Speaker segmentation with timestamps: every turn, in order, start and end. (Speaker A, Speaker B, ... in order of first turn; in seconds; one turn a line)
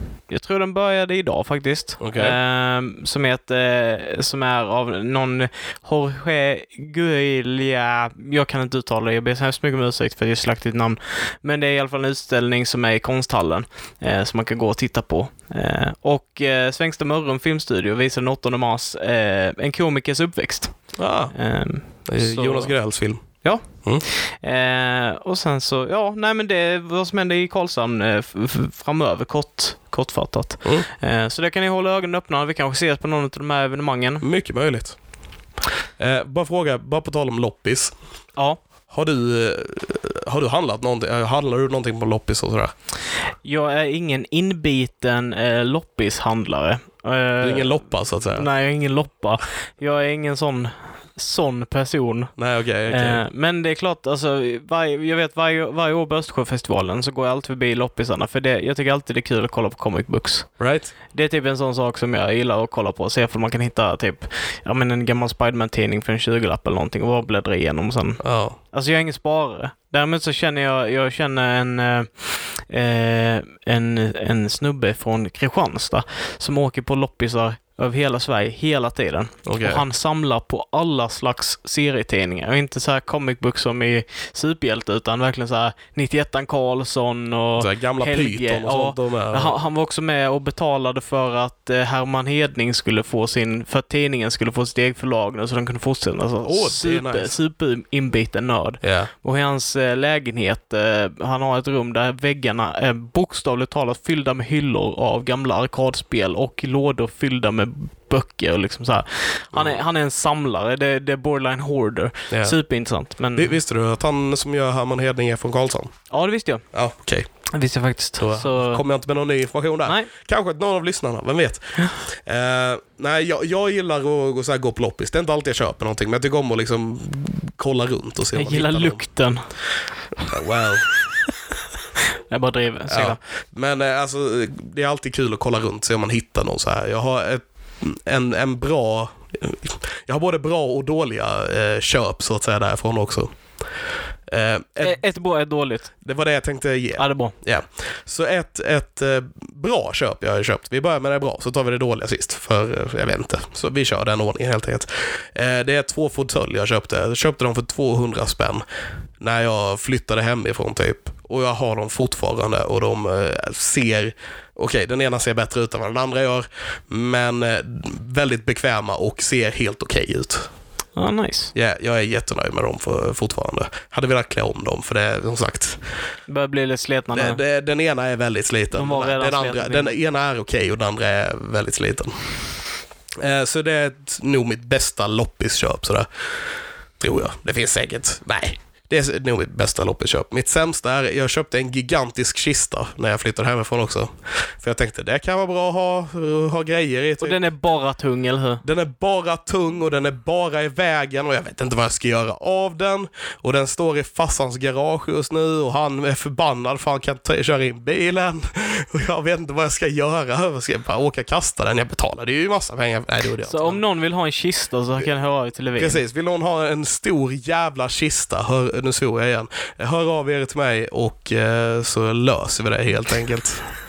Speaker A: 0.3-22.7
Speaker B: 2.0-2.4
Speaker B: 20.9-21.3
Speaker B: 22.1-23.2
Speaker A: 23.4-34.2
Speaker B: 34.2-35.0
Speaker B: 36.0-37.9
Speaker B: 38.9-42.7
Speaker A: 43.4-47.8
Speaker B: 47.4-48.5
Speaker A: 48.3-52.3
Speaker B: 52.4-53.2
Speaker A: 52.9-60.5
Speaker B: 60.6-60.9
Speaker A: 61.1-113.5
Speaker B: 68.2-68.6
Speaker B: 79.5-79.8
Speaker B: 87.6-89.5
Speaker B: 96.5-97.3
Speaker B: 98.8-99.1
Speaker B: 112.3-112.6
Speaker B: 113.3-115.9
Speaker A: 116.1-116.6
Speaker B: 116.7-117.3
Speaker A: 117.5-118.8
Speaker B: 118.2-129.0
Speaker A: 128.3-129.4
Speaker B: 130.3-130.9
Speaker A: 132.3-133.2
Speaker B: 132.9-143.3
Speaker B: 144.3-145.0
Speaker A: 144.8-145.9
Speaker B: 146.0-158.6
Speaker A: 147.0-147.3
Speaker B: 159.2-170.5
Speaker A: 170.9-171.5
Speaker B: 171.5-175.8
Speaker A: 176.3-177.4
Speaker B: 177.1-182.3
Speaker A: 178.7-179.9
Speaker B: 183.2-186.1
Speaker B: 187.0-197.4
Speaker A: 197.2-198.6
Speaker B: 198.6-213.8
Speaker A: 213.4-216.0
Speaker B: 215.8-223.7